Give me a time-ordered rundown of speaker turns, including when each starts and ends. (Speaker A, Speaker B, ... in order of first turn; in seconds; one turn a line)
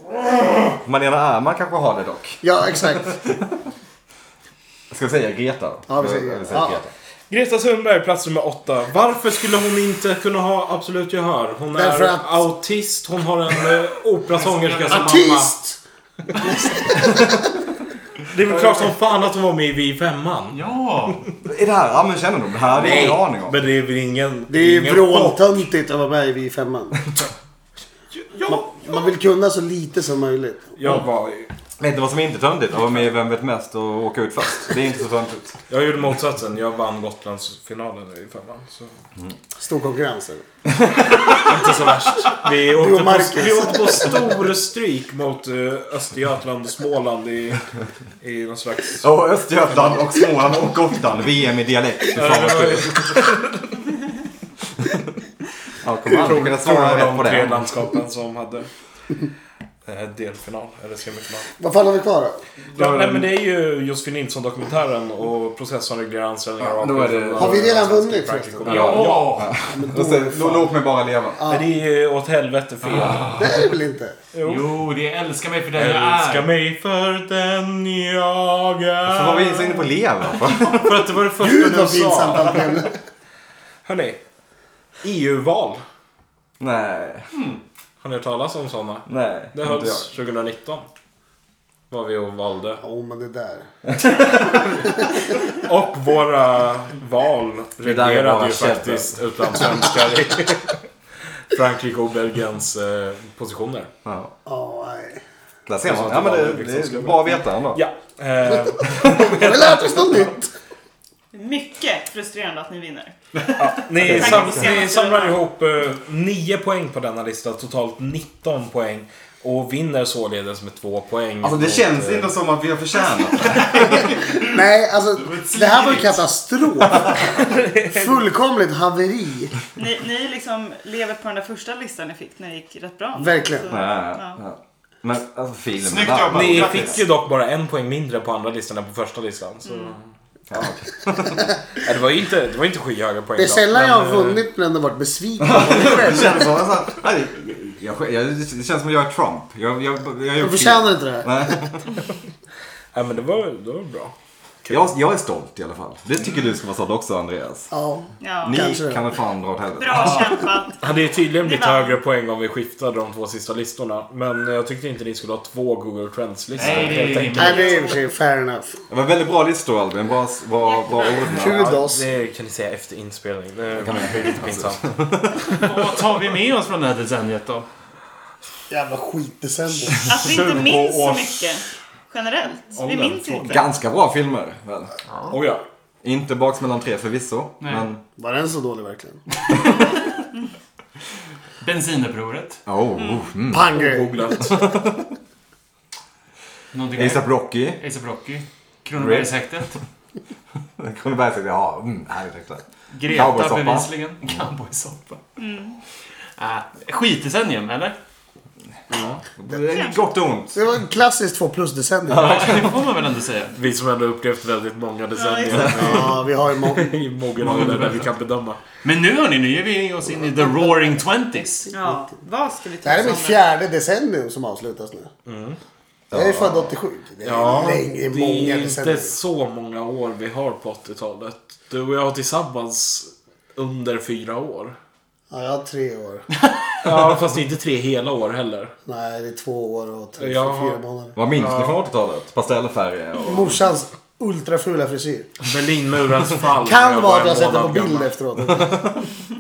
Speaker A: 0.5-3.6
Speaker B: 2.4-3.2
Speaker A: 4.9-6.9
Speaker B: 5.9-6.8
Speaker C: 7.3-15.5
Speaker B: 11.7-12.4
Speaker D: 14.7-15.2
Speaker B: 14.9-15.8
Speaker B: 16.4-17.4
Speaker C: 18.3-21.2
Speaker B: 18.5-18.8
Speaker D: 20.5-21.2
Speaker A: 21.4-23.6
Speaker C: 22.7-25.4
Speaker B: 24.5-27.0
Speaker C: 28.1-29.1
Speaker B: 28.5-30.8
Speaker C: 30.8-31.5
Speaker A: 31.8-35.6
Speaker C: 35.7-38.9
Speaker B: 39.5-40.5
Speaker A: 40.7-41.3
Speaker C: 41.3-47.7
Speaker B: 42.6-44.4
Speaker C: 48.2-49.1
Speaker A: 49.0-53.3
Speaker C: 49.7-50.0
Speaker C: 52.1-53.9
Speaker A: 55.8-57.6
Speaker C: 56.1-58.7
Speaker C: 59.9-61.5
Speaker B: 61.6-62.4
Speaker C: 62.7-69.4
Speaker A: 66.8-67.8
Speaker B: 67.4-70.7
Speaker A: 68.7-71.5
Speaker D: 68.7-69.5
Speaker B: 71.4-71.7
Speaker C: 71.5-73.5
Speaker D: 72.8-73.7
Speaker B: 73.4-74.2
Speaker C: 74.3-74.7
Speaker D: 74.4-76.5
Speaker C: 75.8-79.8
Speaker A: 79.1-81.0
Speaker C: 80.7-82.8
Speaker B: 81.4-83.0
Speaker C: 83.8-84.2
Speaker C: 85.0-85.8
Speaker A: 86.6-87.3
Speaker D: 87.3-87.6
Speaker C: 88.0-90.9
Speaker A: 89.1-90.0
Speaker C: 91.9-92.8
Speaker B: 92.8-93.7
Speaker A: 93.9-94.7
Speaker C: 95.5-100.8
Speaker A: 97.8-99.2
Speaker C: 101.5-103.9
Speaker A: 104.0-104.3
Speaker B: 104.5-105.2
Speaker A: 105.7-107.8
Speaker C: 105.8-110.3
Speaker A: 108.9-109.3
Speaker B: 109.1-110.5
Speaker E: 111.3-113.2
Speaker C: 113.6-122.3
Speaker A: 114.0-114.8
Speaker E: 114.0-115.4
Speaker A: 121.4-124.1
Speaker B: 124.4-129.6
Speaker D: 125.2-126.2
Speaker C: 127.2-128.3
Speaker E: 129.8-134.4
Speaker B: 133.2-133.7
Speaker A: 133.7-137.0
Speaker D: 135.8-137.0
Speaker C: 136.3-140.0
Speaker E: 139.7-139.9
Speaker A: 140.5-141.5
Speaker C: 141.8-144.4
Speaker B: 143.4-146.6
Speaker A: 145.4-152.0
Speaker B: 150.4-151.6
Speaker C: 152.9-154.8
Speaker A: 154.7-157.7
Speaker B: 157.7-159.1
Speaker E: 158.2-158.8
Speaker A: 158.4-160.4
Speaker E: 159.8-162.0
Speaker C: 160.8-167.7
Speaker D: 166.6-167.8
Speaker A: 166.7-167.1
Speaker E: 167.3-168.1
Speaker B: 167.3-168.8
Speaker A: 168.9-171.8
Speaker E: 170.6-171.4
Speaker B: 171.2-172.0
Speaker C: 171.3-175.7
Speaker A: 173.8-175.6
Speaker D: 175.4-177.7
Speaker B: 178.7-180.2
Speaker E: 180.0-183.7
Speaker C: 180.3-181.4
Speaker C: 182.8-183.6
Speaker A: 183.5-184.9
Speaker C: 185.3-185.6
Speaker A: 186.0-188.0
Speaker D: 187.6-187.9
Speaker B: 188.2-189.2
Speaker D: 191.6-192.6
Speaker A: 192.7-193.7
Speaker B: 193.5-194.4
Speaker C: 193.6-194.8
Speaker A: 194.4-195.1
Speaker D: 196.7-199.8
Speaker A: 196.9-197.8
Speaker A: 199.0-199.3
Speaker A: 200.8-203.9
Speaker D: 202.9-205.2
Speaker E: 205.4-205.8
Speaker D: 206.4-208.0
Speaker A: 208.9-210.6
Speaker E: 209.7-210.1
Speaker B: 210.5-212.4
Speaker A: 212.1-212.8
Speaker D: 212.1-213.6
Speaker C: 213.6-218.6
Speaker E: 215.2-216.0
Speaker B: 215.7-217.0
Speaker D: 217.4-218.1
Speaker D: 218.8-221.7
Speaker B: 220.4-221.0
Speaker E: 221.7-223.4
Speaker B: 222.8-225.1
Speaker C: 225.3-225.6
Speaker A: 226.1-226.7
Speaker B: 226.1-229.1
Speaker C: 227.2-234.8
Speaker B: 235.3-236.3
Speaker C: 236.8-238.7
Speaker B: 238.9-241.2
Speaker C: 240.2-240.8
Speaker A: 241.2-243.7
Speaker C: 241.3-241.8
Speaker B: 243.2-245.4
Speaker C: 245.4-248.1
Speaker B: 246.6-248.9
Speaker A: 248.5-249.0